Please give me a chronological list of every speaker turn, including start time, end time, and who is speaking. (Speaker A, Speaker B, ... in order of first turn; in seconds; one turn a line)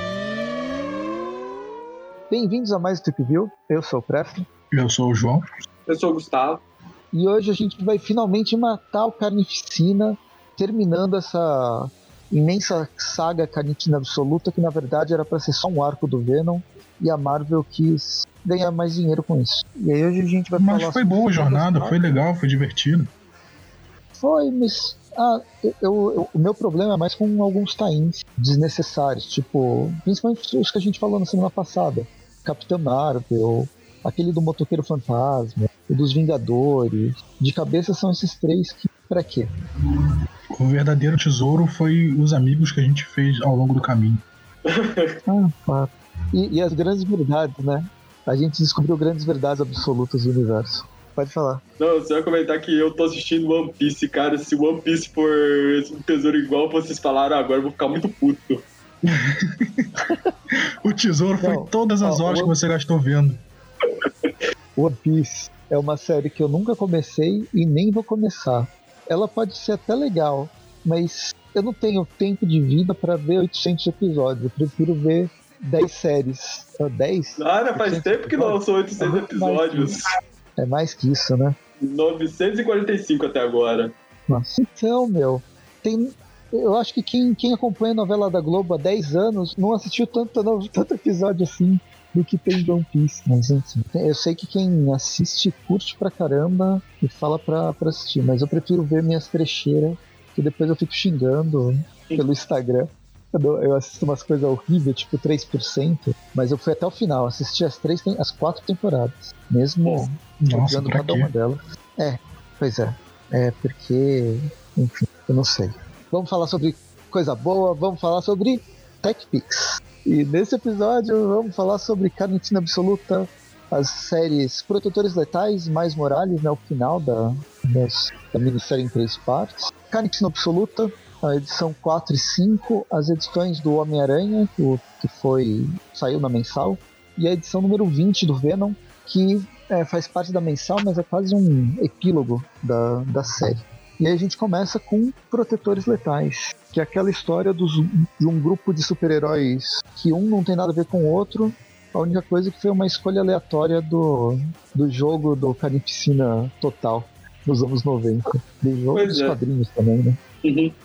Speaker A: 2.3-4.5
Speaker B: 4.7-5.5
Speaker C: 5.9-6.6
Speaker A: 7.1-22.2
Speaker B: 20.6-23.1
Speaker A: 24.2-39.5
Speaker B: 40.6-44.2
Speaker C: 44.7-45.1
Speaker A: 45.3-51.6
Speaker C: 51.8-58.6
Speaker B: 59.1-59.9
Speaker B: 60.8-63.4
Speaker A: 61.4-62.5
Speaker A: 64.8-80.0
Speaker C: 77.4-80.0
Speaker A: 80.6-81.6
Speaker C: 81.8-83.9
Speaker A: 84.3-160.2
Speaker B: 110.5-111.3
Speaker C: 158.9-159.3
Speaker C: 160.4-160.7